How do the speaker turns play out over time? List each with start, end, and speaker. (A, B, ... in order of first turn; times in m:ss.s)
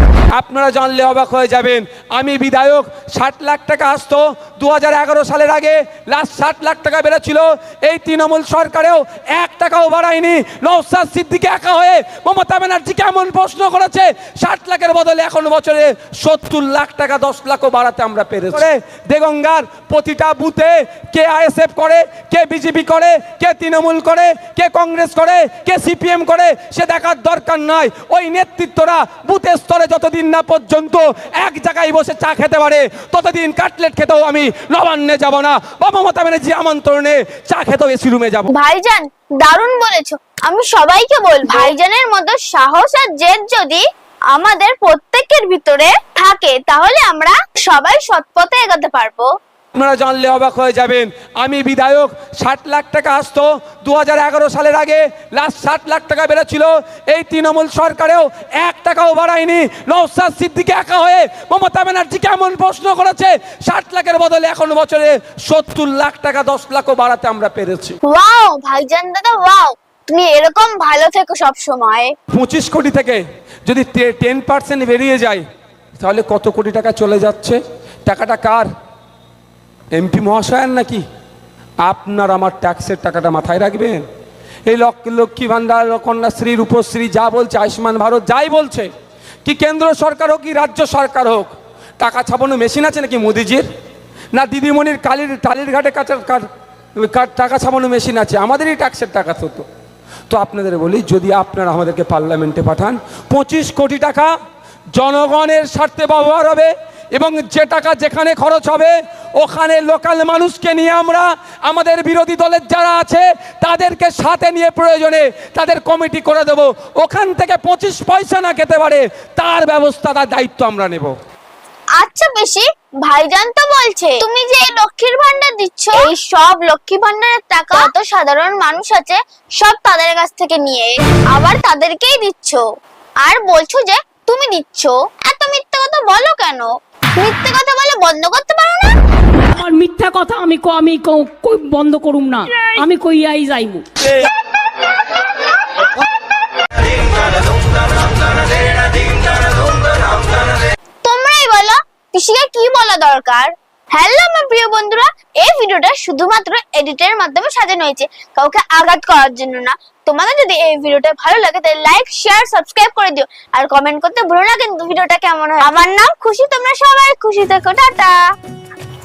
0:00.3-0:38.5 A
0:38.5-0:49.3 B
0:49.7-1:08.0 A
1:08.0-1:12.1 B
1:12.3-1:15.4 A
1:16.0-1:18.7 A
1:19.9-1:21.0 A
1:21.8-1:24.0 A
1:24.7-1:28.9 A
1:29.4-1:33.7 A
1:34.3-1:36.4 A
1:37.0-1:39.7 A
1:40.3-1:44.3 A
1:44.9-2:01.1 A
2:02.0-2:12.6 B
2:13.2-2:19.0 B
2:19.5-2:23.8 C
2:31.0-2:48.2 B